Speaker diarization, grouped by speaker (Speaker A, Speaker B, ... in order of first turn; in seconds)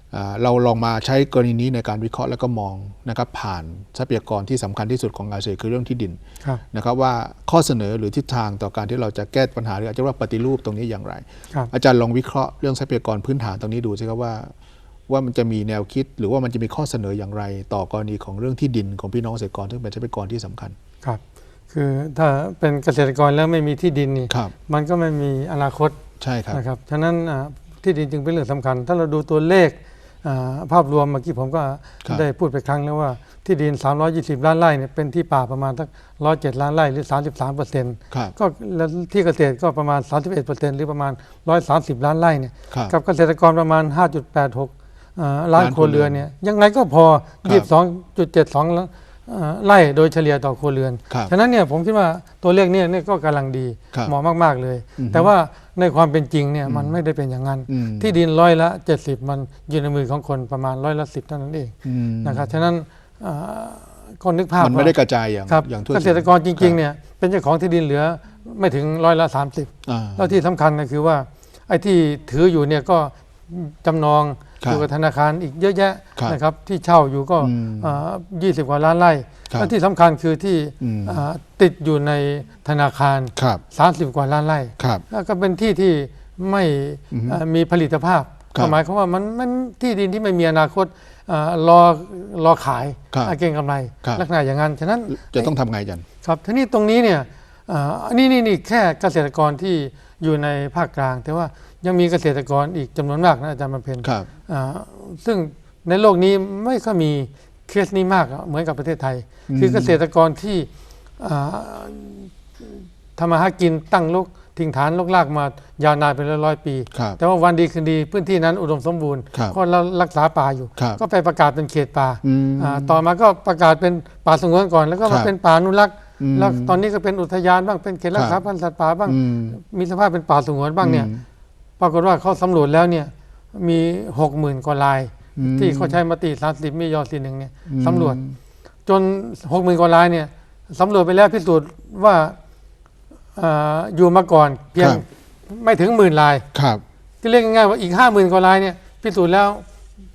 Speaker A: 0.1-6.2, 6.7-14.5, 15.1-20.8, 26.2-26.6, 45.5-46.2, 55.0-55.3, 56.6-57.0, 57.7-58.1, 61.8-62.5, 64.6-66.8, 69.8-70.4, 74.6-74.8, 77.4-78.0, 80.8-81.2, 83.3-83.6, 84.8-85.0, 87.1-87.4, 95.1-96.0, 104.0-104.3, 109.5-110.0, 116.9-117.2, 122.2-123.0, 125.0-125.3, 126.2-126.8, 128.1-128.4, 129.1-129.6, 130.8-131.2, 135.3-136.0, 137.7-138.4, 146.5-146.8
Speaker B: 21.7-26.0, 26.5-64.9, 65.5-95.5, 96.2-110.7, 111.2-112.3, 113.2-131.1, 131.8-138.2, 138.8-142.4, 143.3-146.4, 147.2-149.6